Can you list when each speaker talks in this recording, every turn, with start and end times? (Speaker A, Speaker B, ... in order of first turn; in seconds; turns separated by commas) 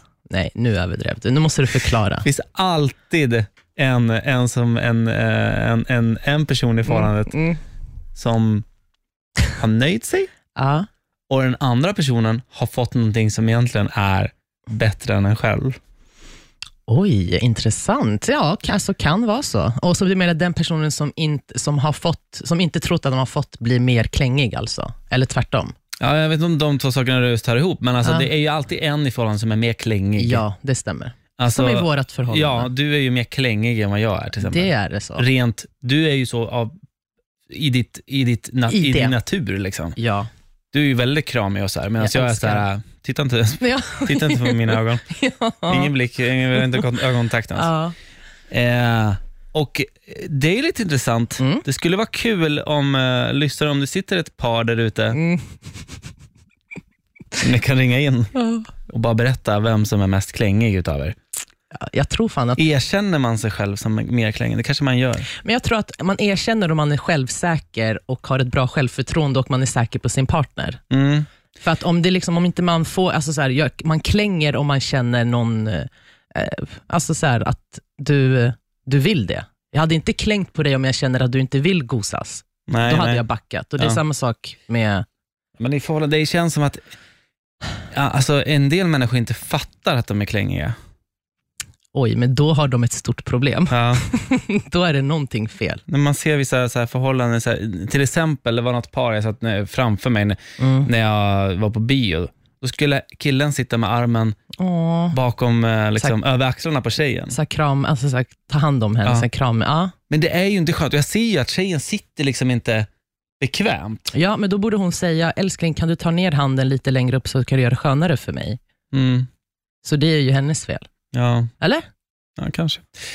Speaker A: 0.3-2.2, Speaker B: 2.2-7.4, Speaker A: 6.8-7.6, Speaker B: 8.1-8.6, Speaker B: 9.6-10.3, Speaker A: 10.5-10.9, Speaker B: 11.3-15.8, Speaker A: 16.9-25.7, Speaker B: 26.0-30.4, Speaker A: 28.0-28.3, Speaker A: 30.2-32.7, Speaker B: 31.4-36.8, Speaker A: 34.4-35.2, Speaker B: 37.5-40.0, Speaker A: 38.7-39.1, Speaker A: 40.0-40.3, Speaker B: 40.7-45.0, Speaker A: 42.0-42.6, Speaker A: 43.6-45.9, Speaker B: 45.7-47.7, Speaker A: 46.6-46.8, Speaker A: 47.5-47.9, Speaker B: 48.5-55.2, Speaker A: 51.4-51.6, Speaker A: 55.1-55.6, Speaker B: 57.4-61.2, Speaker A: 61.7-62.6, Speaker B: 62.6-65.3, Speaker A: 65.3-70.8, Speaker B: 70.9-71.3, Speaker A: 71.6-85.0, Speaker B: 82.7-83.2, Speaker B: 85.6-86.8, Speaker B: 87.9-90.8, Speaker A: 91.9-95.8, Speaker B: 93.7-94.0, Speaker B: 95.9-104.4, Speaker A: 100.6-100.9, Speaker A: 104.6-105.2, Speaker B: 105.1-107.4, Speaker A: 107.3-109.9, Speaker B: 110.1-112.9, Speaker B: 113.4-114.1, Speaker A: 114.1-118.6, Speaker B: 118.9-119.3, Speaker A: 119.8-120.9, Speaker B: 121.1-121.5, Speaker B: 122.4-122.8